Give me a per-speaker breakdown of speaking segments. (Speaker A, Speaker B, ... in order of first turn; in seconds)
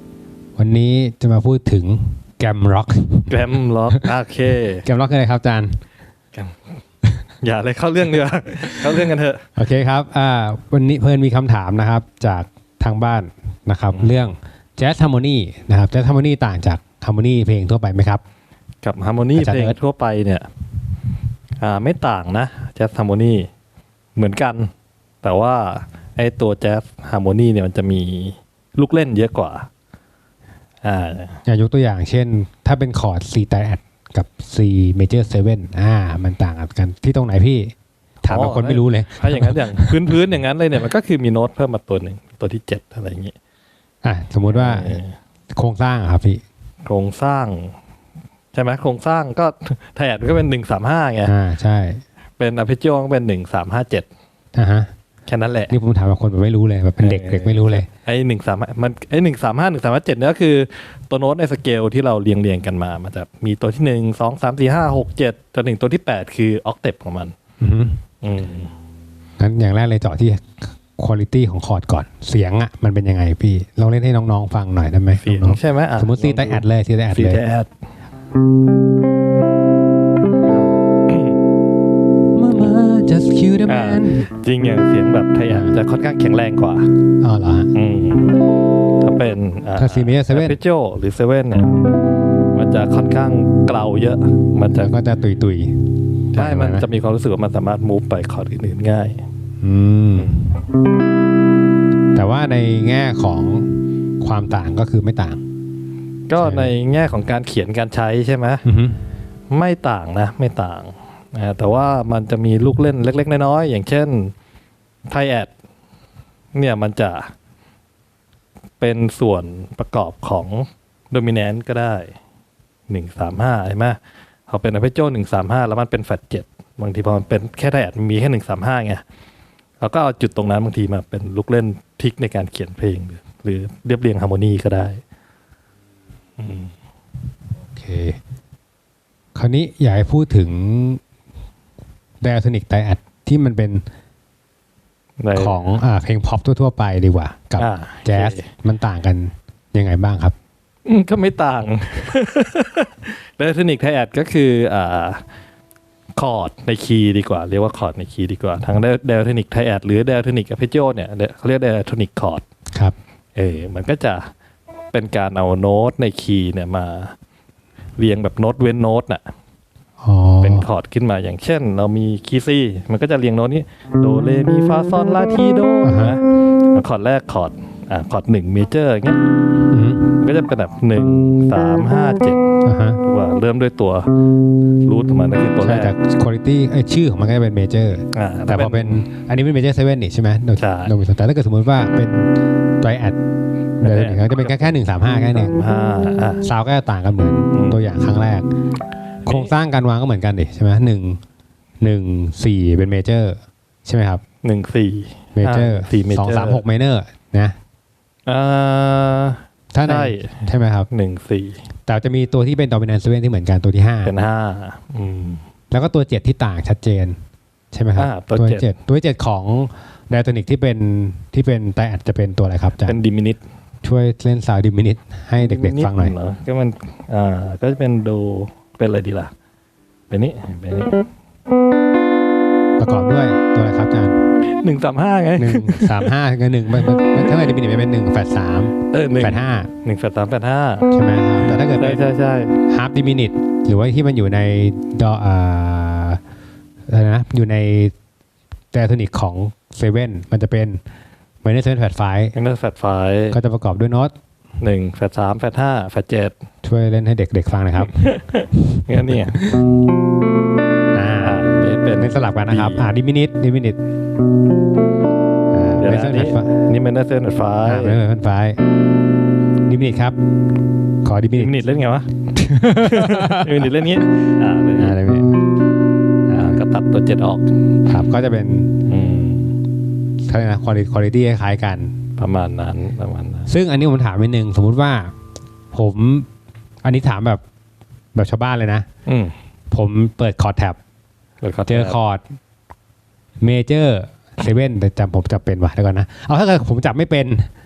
Speaker A: 0.6-3.3, 4.8-5.8, 9.6-18.2, 19.3-19.8, 31.4-40.0, 44.0-45.0, 45.5-46.4, 51.2-52.0, 54.5-54.9, 55.7-57.9, 67.6-68.0, 69.4-77.4, 82.3-84.2, 85.5-85.7, 87.2-87.7, 89.8-90.6, 94.7-95.7, 96.3-96.8, 99.6-100.4, 102.1-105.4, 106.4-106.7, 108.6-109.0, 137.7-138.2, 139.3-141.0, 142.2-143.8, 145.3-150.3, 170.0-170.6, 175.8-176.1, 179.7-180.1, 182.6-183.0, 185.6-193.2, 193.8-195.5, 196.4-198.5, 199.2-201.2, 201.8-204.2, 205.3-207.5, 209.7-210.9, 211.9-214.1, 215.7-217.2, 217.7-223.0, 223.8-226.1, 232.8-234.1, 235.4-239.7, 240.9-242.0, 242.7-246.2, 246.9-247.9, 248.7-250.8, 251.4-252.3, 253.3-254.1, 256.6-258.0, 260.9-261.4, 262.0-263.8, 265.5-266.5, 267.6-268.6, 269.6-270.1, 271.0-271.5, 272.4-273.6, 274.8-275.4, 276.3-276.6, 277.9-278.8, 280.2-281.9, 283.5-285.1, 285.7-286.3, 286.8-287.4, 288.1-288.8, 289.7-290.8, 291.7-292.2, 293.4-297.5
Speaker B: 3.3-4.8, 6.3-6.6, 7.4-9.4, 13.9-14.2, 18.8-20.5, 21.6-23.5, 24.1-24.7, 25.2-29.7, 30.8-31.4, 38.2-43.3, 44.5-45.1, 46.9-47.7, 48.5-51.3, 52.4-54.1, 55.3-55.7, 57.0-67.3, 68.2-68.7, 75.1-77.7, 80.5-81.4, 83.7-86.9, 87.7-88.3, 89.0-91.7, 92.5-94.9, 96.3-99.2, 100.2-100.5, 106.3-108.6, 109.5-114.3, 115.1-115.5, 116.5-117.3, 118.8-122.1, 122.9-129.0, 129.8-135.0, 136.4-136.7, 145.2-145.6, 147.6-148.5, 150.8-155.2, 156.2-162.4, 163.3-164.3, 164.9-167.1, 168.0-169.2, 170.4-179.2, 180.2-182.5, 183.0-184.1, 184.8-185.9, 188.1-189.0, 190.6-190.9, 193.8-196.4, 197.5-197.8, 199.2-199.5, 204.4-206.6, 208.2-211.6, 214.0-215.4, 218.0-218.7, 222.8-223.4, 225.4-229.3, 230.1-231.0, 234.6-236.1, 238.9-240.9, 241.7-242.6, 252.3-253.4, 254.6-256.3, 257.8-259.4, 261.2-262.8, 265.8-268.0, 271.4-274.9, 276.3-277.5, 278.9-279.5, 282.2-283.5, 289.1-289.3, 291.4-292.0